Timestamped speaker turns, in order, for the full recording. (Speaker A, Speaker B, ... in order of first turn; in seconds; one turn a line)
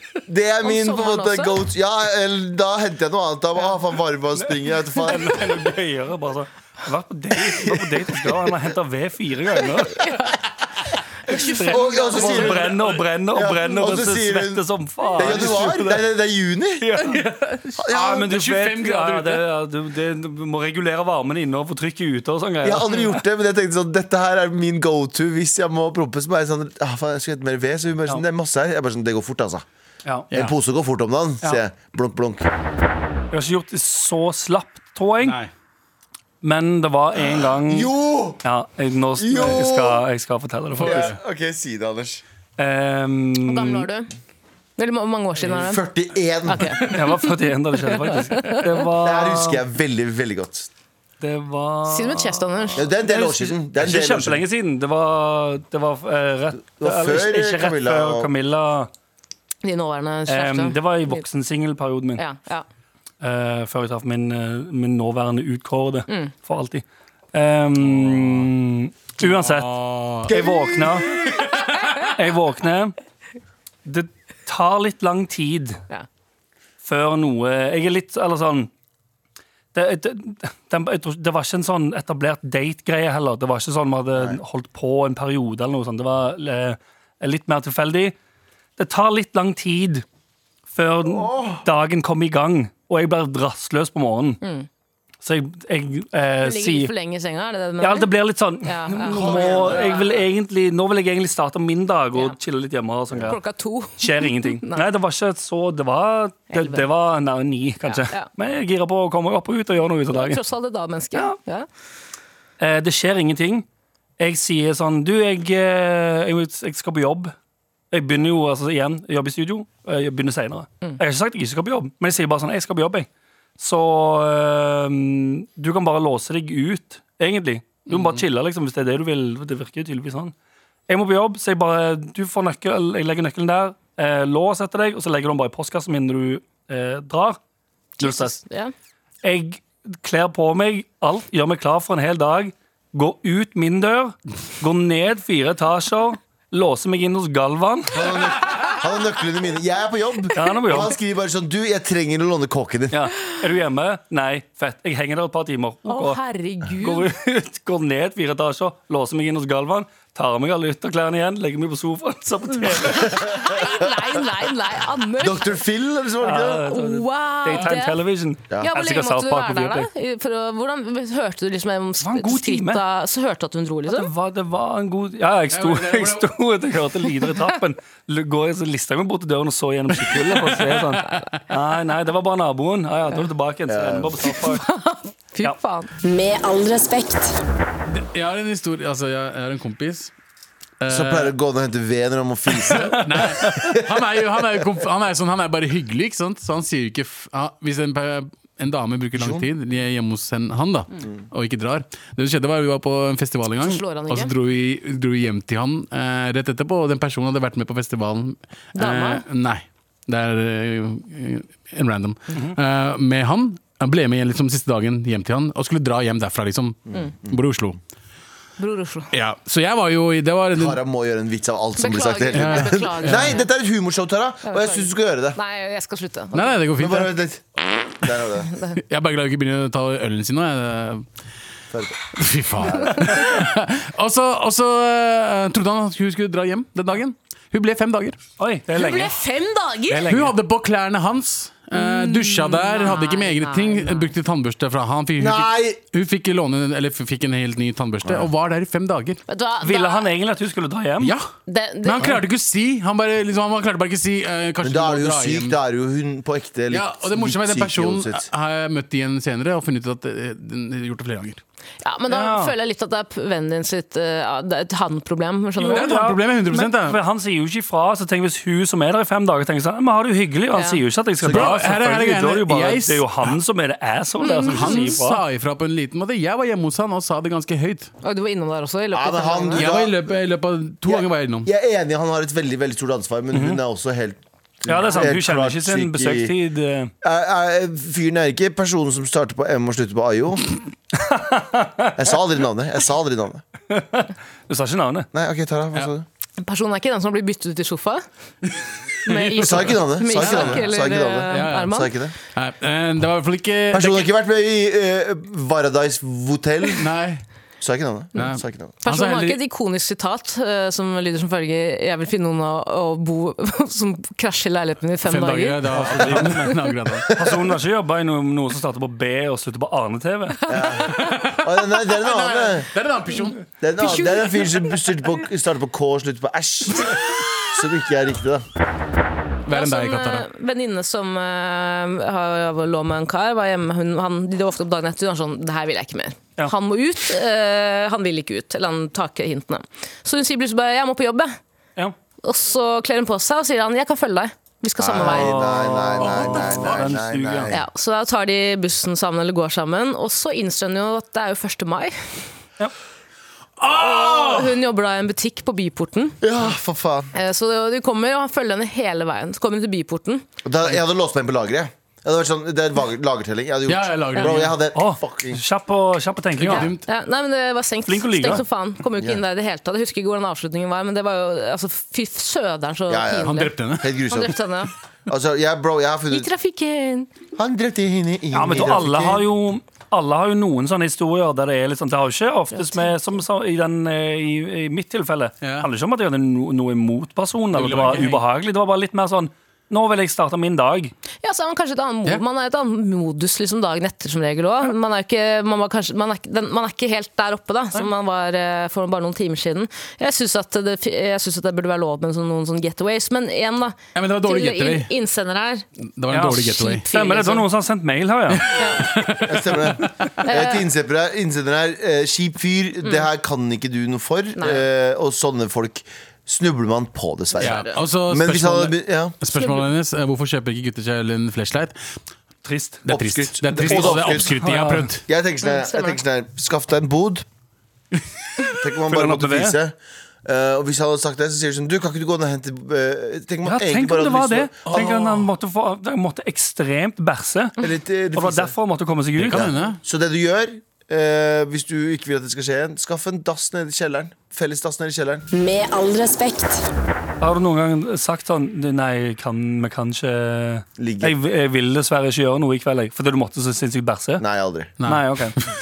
Speaker A: 0.3-5.4
Speaker B: 0.6-1.6
Speaker C: 4.4-10.0
Speaker A: 7.4-8.6
Speaker B: 10.0-10.3
Speaker C: 11.3-16.0
Speaker D: 11.3-12.8
Speaker A: 11.7-14.6
Speaker A: 15.2-16.9
Speaker C: 16.8-17.2
Speaker D: 17.0-19.4
Speaker A: 17.8-18.3
Speaker C: 17.9-23.2
Speaker A: 22.6-29.6
Speaker A: 30.3-32.5
Speaker C: 33.3-35.4
Speaker D: 35.2-35.5
Speaker C: 36.4-37.9
Speaker A: 37.6-38.4
Speaker C: 38.4-41.1
Speaker A: 39.2-40.0
Speaker D: 40.8-41.1
Speaker A: 40.8-42.2
Speaker C: 42.6-43.9
Speaker B: 43.4-44.1
Speaker B: 44.8-45.8
Speaker A: 45.5-46.8
Speaker B: 46.5-47.3
Speaker C: 46.8-49.6
Speaker B: 47.9-48.6
Speaker A: 49.0-50.7
Speaker C: 51.2-58.9
Speaker B: 51.9-52.9
Speaker A: 52.8-54.5
Speaker A: 56.8-58.3
Speaker B: 59.6-61.2
Speaker C: 60.3-62.2
Speaker B: 62.2-62.6
Speaker C: 63.2-66.8
Speaker C: 67.3-69.7
Speaker D: 67.9-68.5
Speaker D: 69.2-70.3
Speaker C: 70.3-71.4
Speaker A: 70.3-71.2
Speaker C: 72.0-72.9
Speaker C: 73.8-75.8
Speaker C: 76.8-78.7
Speaker C: 79.7-88.2
Speaker A: 84.2-84.4
Speaker C: 88.8-90.0
Speaker C: 90.7-94.4
Speaker A: 91.0-91.7
Speaker B: 94.4-94.7
Speaker C: 95.2-96.9
Speaker B: 96.4-98.1
Speaker C: 97.8-103.4
Speaker B: 98.6-100.0
Speaker A: 99.1-100.2
Speaker B: 103.3-104.8
Speaker C: 104.0-110.4
Speaker B: 106.5-106.9
Speaker B: 107.8-108.3
Speaker B: 110.1-111.7
Speaker C: 112.6-113.7
Speaker C: 114.2-117.3
Speaker C: 117.9-123.1
Speaker C: 123.6-130.3
Speaker D: 127.9-128.2
Speaker C: 130.9-137.4
Speaker B: 138.0-138.7
Speaker C: 138.0-138.4
Speaker C: 139.2-148.1
Speaker A: 147.9-153.0
Speaker C: 150.3-150.9
Speaker C: 152.9-156.2
Speaker B: 155.8-157.1
Speaker C: 156.8-163.2
Speaker B: 162.7-165.6
Speaker A: 165.2-166.7
Speaker C: 166.2-169.9
Speaker B: 166.6-168.0
Speaker B: 168.6-174.1
Speaker C: 172.0-172.8
Speaker C: 173.9-184.6
Speaker D: 175.5-176.3
Speaker D: 180.0-181.4
Speaker A: 183.7-184.2
Speaker B: 184.3-185.9
Speaker E: 186.0-187.4
Speaker D: 187.9-190.1
Speaker D: 190.8-191.3
Speaker A: 190.9-194.3
Speaker D: 192.8-217.8
Speaker C: 192.9-193.7
Speaker A: 199.2-199.5
Speaker B: 203.6-204.3
Speaker B: 208.8-209.2
Speaker A: 216.9-217.4
Speaker B: 218.6-219.1
Speaker D: 219.1-220.8
Speaker A: 220.6-225.4
Speaker B: 221.8-223.5
Speaker D: 222.3-223.4
Speaker B: 224.4-226.6
Speaker D: 226.3-227.2
Speaker A: 226.8-228.5
Speaker B: 228.5-228.8
Speaker D: 228.8-231.1
Speaker A: 231.7-232.0
Speaker D: 232.1-238.2
Speaker A: 232.6-233.1
Speaker C: 238.4-239.2
Speaker B: 238.7-240.1
Speaker C: 239.9-240.3
Speaker D: 240.1-249.2
Speaker B: 241.7-244.1
Speaker A: 245.2-245.8
Speaker B: 249.3-250.1
Speaker C: 249.6-251.2
Speaker D: 251.0-251.3
Speaker B: 251.5-252.2
Speaker D: 251.8-255.6
Speaker A: 254.6-258.3
Speaker D: 256.7-261.4
Speaker B: 261.8-266.0
Speaker C: 262.1-262.5
Speaker C: 265.6-275.2
Speaker D: 265.7-267.0
Speaker B: 270.6-270.8
Speaker A: 271.2-271.5
Speaker D: 271.3-273.4
Speaker B: 274.2-275.0
Speaker D: 274.2-277.9
Speaker B: 278.0-279.7
Speaker A: 278.9-280.1
Speaker D: 279.6-281.5
Speaker A: 280.9-286.3
Speaker C: 283.3-283.6
Speaker C: 284.7-286.9
Speaker A: 287.0-290.6
Speaker C: 290.9-292.0
Speaker A: 292.0-293.4
Speaker C: 293.7-295.1
Speaker A: 295.1-296.1
Speaker B: 296.4-298.0
Speaker B: 299.1-301.9
Speaker D: 299.1-300.7
Speaker A: 299.4-302.1
Speaker D: 301.3-301.8
Speaker D: 302.3-304.1
Speaker A: 303.7-306.9
Speaker D: 306.8-307.2
Speaker A: 307.6-308.8
Speaker D: 308.2-309.4
Speaker B: 308.8-315.6
Speaker D: 315.0-317.2
Speaker C: 315.7-316.5
Speaker C: 317.1-320.4
Speaker A: 320.5-322.7
Speaker B: 320.6-321.1
Speaker D: 320.9-323.4
Speaker A: 323.6-328.4
Speaker B: 323.8-324.7
Speaker D: 329.5-330.3
Speaker B: 329.5-341.4
Speaker B: 342.2-345.4
Speaker A: 344.8-347.6
Speaker C: 345.0-347.5
Speaker D: 346.0-346.8
Speaker B: 347.5-352.1
Speaker D: 353.6-354.6
Speaker B: 353.7-356.2
Speaker A: 356.2-357.1
Speaker B: 357.1-360.2
Speaker A: 360.4-365.4
Speaker D: 363.7-364.6
Speaker C: 364.7-366.7
Speaker D: 366.4-366.8
Speaker B: 366.5-374.7
Speaker C: 367.9-368.4
Speaker A: 372.9-374.4
Speaker D: 373.2-374.0
Speaker A: 375.1-376.3
Speaker B: 376.1-377.1
Speaker A: 377.4-379.2
Speaker C: 378.3-390.9
Speaker B: 382.5-382.9
Speaker D: 385.4-385.7
Speaker D: 387.5-388.2
Speaker B: 391.2-405.6
Speaker D: 403.9-404.9
Speaker D: 406.0-406.9
Speaker C: 406.1-408.5
Speaker B: 406.4-407.5
Speaker D: 408.3-410.1
Speaker B: 408.6-408.9
Speaker A: 409.2-419.1
Speaker B: 410.2-410.7
Speaker B: 412.8-413.1
Speaker B: 414.4-414.6
Speaker D: 417.4-421.8
Speaker B: 417.4-417.7
Speaker B: 419.3-419.7
Speaker C: 422.4-422.8
Speaker D: 422.9-425.0
Speaker A: 422.9-424.4
Speaker C: 423.6-424.9
Speaker A: 425.1-427.3
Speaker B: 425.4-426.0
Speaker A: 428.6-435.0
Speaker C: 428.9-429.6
Speaker C: 433.4-437.6
Speaker D: 434.6-435.2
Speaker A: 437.6-438.5
Speaker C: 438.1-439.5
Speaker A: 439.2-445.3
Speaker D: 439.2-439.8
Speaker E: 445.3-446.6
Speaker C: 447.2-454.2
Speaker A: 450.8-451.2
Speaker A: 454.2-454.7
Speaker D: 454.8-455.5
Speaker C: 454.8-455.4